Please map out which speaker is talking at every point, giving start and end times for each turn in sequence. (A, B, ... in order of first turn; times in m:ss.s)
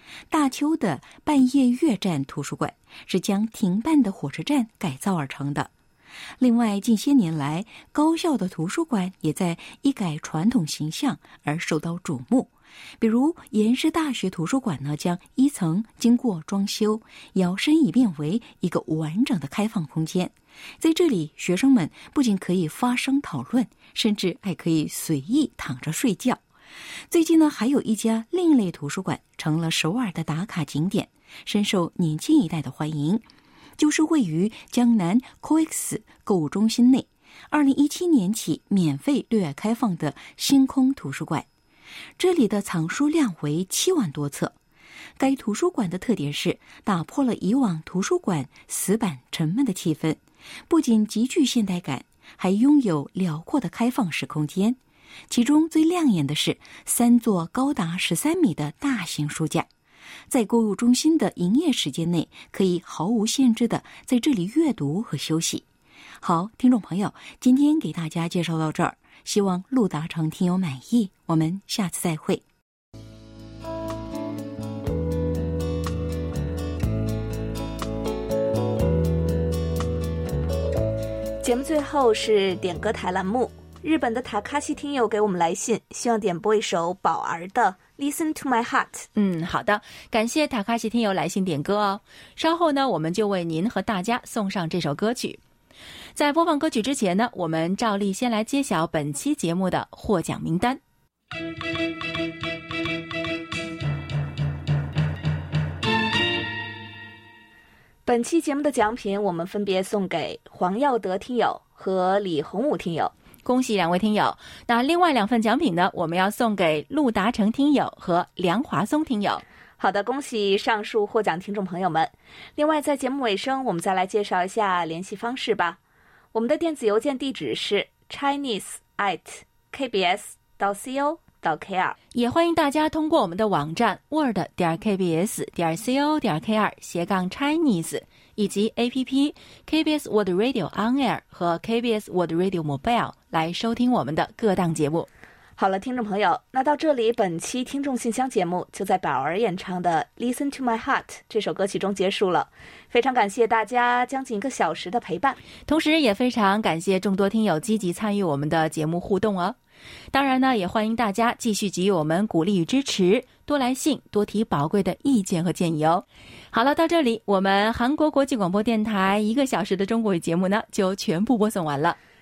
0:00.3-0:05.7 A
0:06.4-0:26.4 A
0:27.1-0:33.2 A
0:33.8-0:41.5 A
0:42.2-0:44.6 A
0:45.2-0:54.8 A
0:55.3-0:59.7 A
1:00.3-1:05.6 A
1:06.2-1:12.4 A
1:21.4-1:29.1 B
1:29.2-1:35.4 C
1:36.2-1:40.8 C
1:48.1-1:53.1 B
1:53.4-1:59.4 C
1:59.8-2:05.8 B
2:06.3-2:12.0 B
2:12.1-2:25.1 C
2:25.6-2:35.4 B
2:35.7-2:39.6 C
2:40.1-2:52.0 C